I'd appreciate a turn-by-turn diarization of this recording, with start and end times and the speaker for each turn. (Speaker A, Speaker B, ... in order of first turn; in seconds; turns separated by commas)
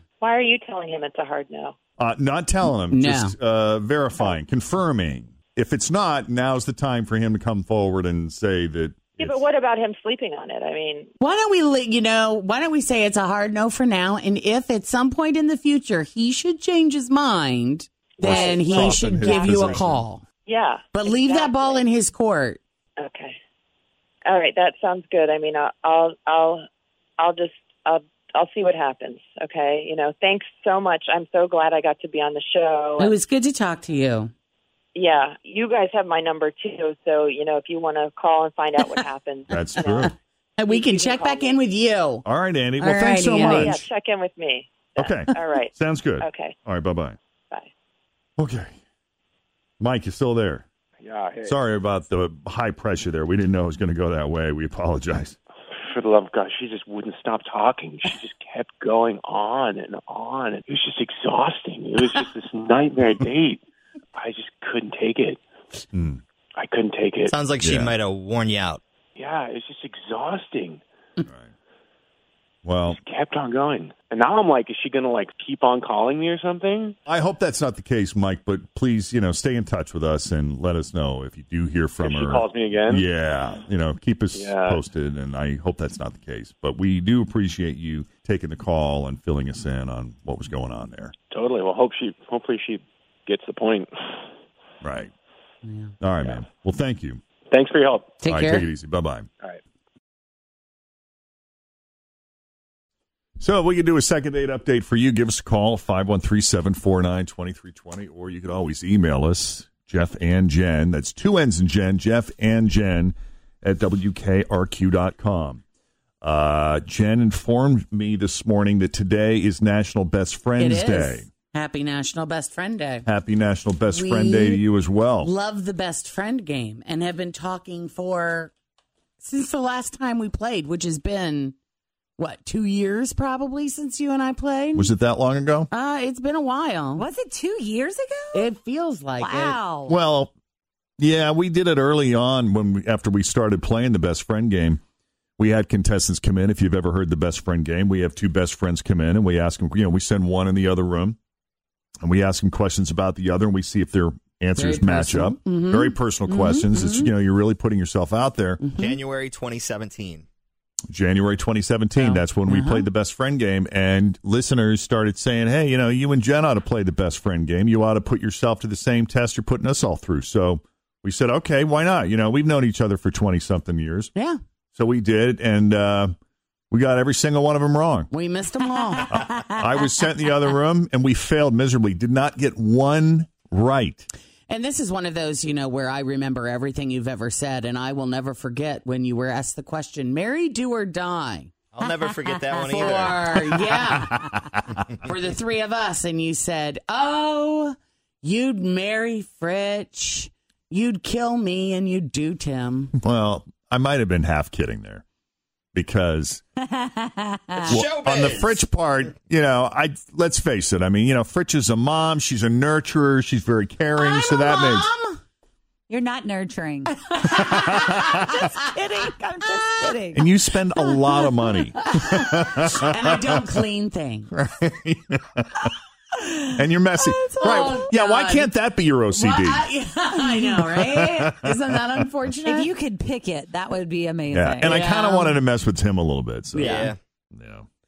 Speaker A: 0.2-1.7, Speaker B: 2.0-9.4, Speaker C: 2.9-3.4, Speaker A: 9.2-11.1, Speaker C: 11.2-20.2, Speaker A: 18.2-19.8, Speaker B: 18.2-20.0, Speaker A: 20.4-21.8, Speaker C: 20.9-22.6, Speaker A: 23.0-23.4, Speaker A: 24.2-26.6, Speaker A: 27.2-33.1, Speaker C: 33.0-34.3, Speaker A: 34.9-40.1, Speaker B: 39.5-40.1, Speaker C: 40.6-42.2, Speaker A: 40.7-41.6, Speaker B: 42.2-43.9, Speaker C: 42.8-43.7, Speaker D: 42.9-43.7, Speaker A: 43.3-46.5, Speaker B: 45.0-47.2, Speaker B: 48.4-48.7, Speaker B: 49.8-50.6, Speaker E: 51.0-51.6, Speaker B: 51.4-55.4, Speaker E: 55.8-63.6, Speaker E: 64.2-65.4, Speaker B: 65.9-66.2, Speaker E: 66.5-67.4, Speaker F: 67.3-68.8, Speaker B: 67.6-67.9, Speaker E: 69.2-70.8, Speaker B: 71.3-71.5, Speaker B: 72.6-73.0, Speaker E: 72.9-77.0, Speaker B: 77.0-91.1, Speaker E: 82.0-83.1, Speaker E: 84.3-84.8, Speaker E: 91.3-94.2, Speaker B: 94.8-95.1, Speaker C: 95.6-95.9, Speaker B: 96.0-97.2, Speaker E: 97.5-98.3, Speaker C: 98.2-98.7, Speaker B: 98.3-99.3, Speaker B: 103.4-115.6, Speaker B: 116.2-121.3, Speaker C: 120.6-123.1, Speaker B: 123.1-125.3, Speaker C: 123.9-124.7, Speaker C: 125.2-128.5, Speaker C: 129.2-131.6, Speaker C: 132.2-134.9, Speaker B: 134.8-135.7, Speaker C: 135.7-137.0, Speaker D: 136.9-138.5, Speaker C: 138.3-139.6, Speaker D: 139.2-140.0, Speaker B: 139.8-140.3, Speaker B: 141.0-144.8, Speaker B: 145.4-151.2, Speaker B: 152.0-158.6, Speaker C: 154.6-157.1, Speaker C: 158.6-158.9, Speaker F: 158.8-160.2, Speaker B: 160.9-174.1, Speaker C: 161.9-162.8, Speaker B: 174.7-176.1, Speaker B: 176.7-178.1, Speaker C: 178.1-179.1, Speaker D: 178.6-179.4, Speaker B: 179.1-184.1, Speaker C: 184.5-191.6, Speaker F: 191.7-193.5, Speaker D: 191.8-192.8, Speaker C: 192.8-194.2, Speaker B: 193.3-194.6, Speaker C: 195.1-202.9, Speaker B: 203.0-205.0, Speaker B: 205.7-206.4, Speaker D: 206.7-207.8, Speaker B: 207.7-214.9, Speaker F: 207.7-208.6, Speaker C: 214.0-215.2, Speaker D: 215.9-220.3, Speaker C: 216.8-218.0, Speaker B: 217.4-218.2, Speaker B: 220.1-223.6, Speaker C: 221.2-224.3, Speaker B: 224.3-225.7, Speaker B: 226.6-229.7, Speaker C: 227.0-228.5, Speaker C: 229.1-232.7, Speaker D: 230.1-230.5, Speaker B: 230.4-231.6, Speaker D: 232.4-234.9, Speaker B: 234.3-237.7, Speaker C: 234.7-235.4, Speaker F: 236.6-237.0